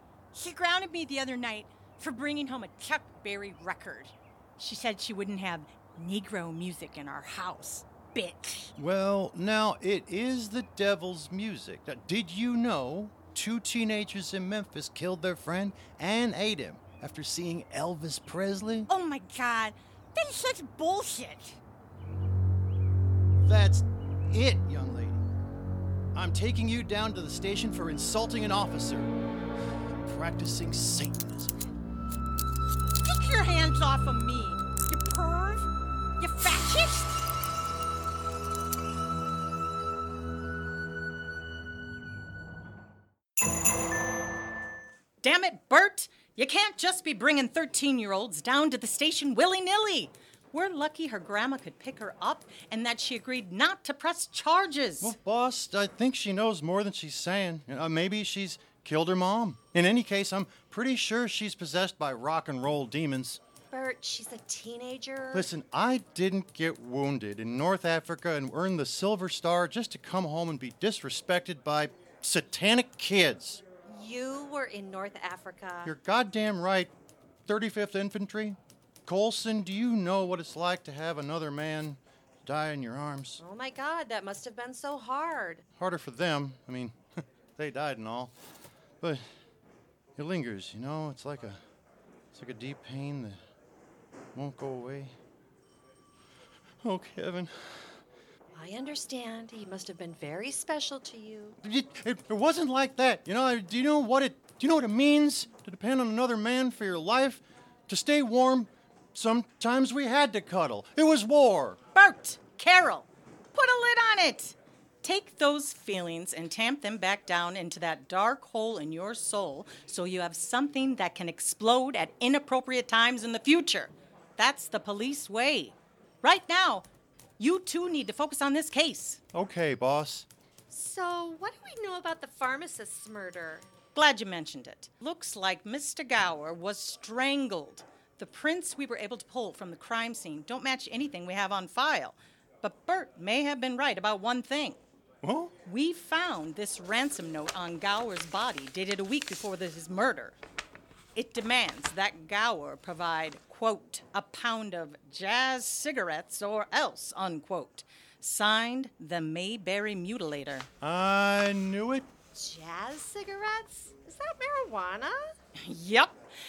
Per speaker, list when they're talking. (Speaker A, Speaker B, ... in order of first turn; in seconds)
Speaker A: 0.3-8.7, 18.9-21.6, 33.0-35.7, 36.2-37.1, 45.2-55.1, 111.9-126.9, 127.4-129.2, 133.9-144.8, 145.6-150.3, 151.1-160.7, 165.7-166.1
Speaker B: 8.8-18.9, 23.4-25.2, 26.1-29.1, 29.9-31.5, 55.0-63.4, 65.3-73.6, 75.8-76.9, 77.5-83.4, 85.8-88.3, 90.2-91.6, 92.3-93.4, 94.3-95.1, 96.8-97.9, 101.6-111.8, 129.3-130.3, 145.2-145.5, 160.8-162.1
Speaker C: 63.7-65.5, 73.9-75.9, 83.4-85.6, 98.5-101.6, 130.7-133.6, 162.3-165.3